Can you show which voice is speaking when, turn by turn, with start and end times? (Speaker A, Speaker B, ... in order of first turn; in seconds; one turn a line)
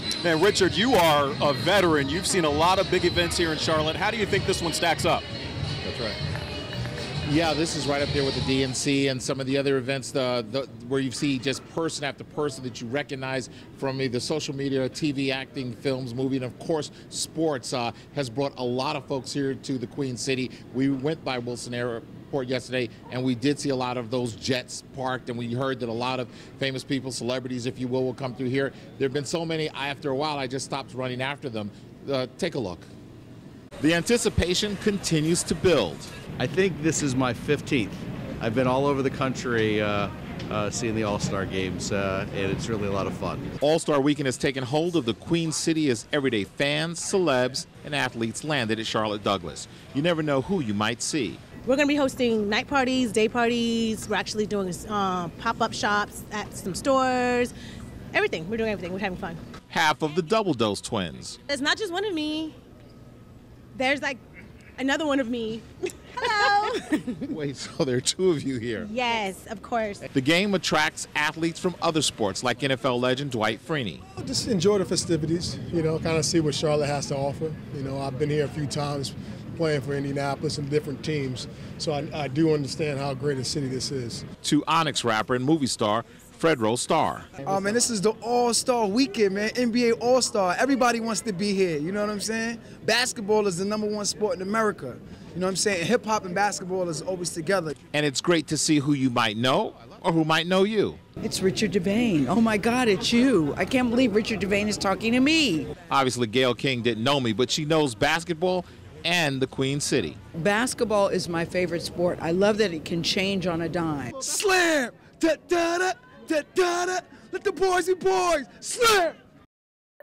Speaker A: 0.2-5.2
Speaker B: 5.8-6.2
Speaker B: 7.2-32.9
Speaker B: 33.8-36.1
Speaker C: 36.4-43.5
Speaker B: 43.6-51.4
Speaker D: 51.6-57.5
Speaker D: 58.1-59.4
Speaker B: 59.7-61.4
Speaker D: 61.5-62.5
Speaker D: 63.7-64.2
Speaker D: 64.8-67.0
Speaker B: 67.2-68.9
Speaker D: 68.8-70.0
Speaker B: 70.1-74.0
Speaker E: 74.2-84.2
Speaker B: 84.4-87.3
Speaker F: 87.5-97.7
Speaker B: 97.9-101.0
Speaker G: 101.2-105.7
Speaker B: 105.9-110.2
Speaker G: 110.3-114.1
Speaker F: 114.1-119.2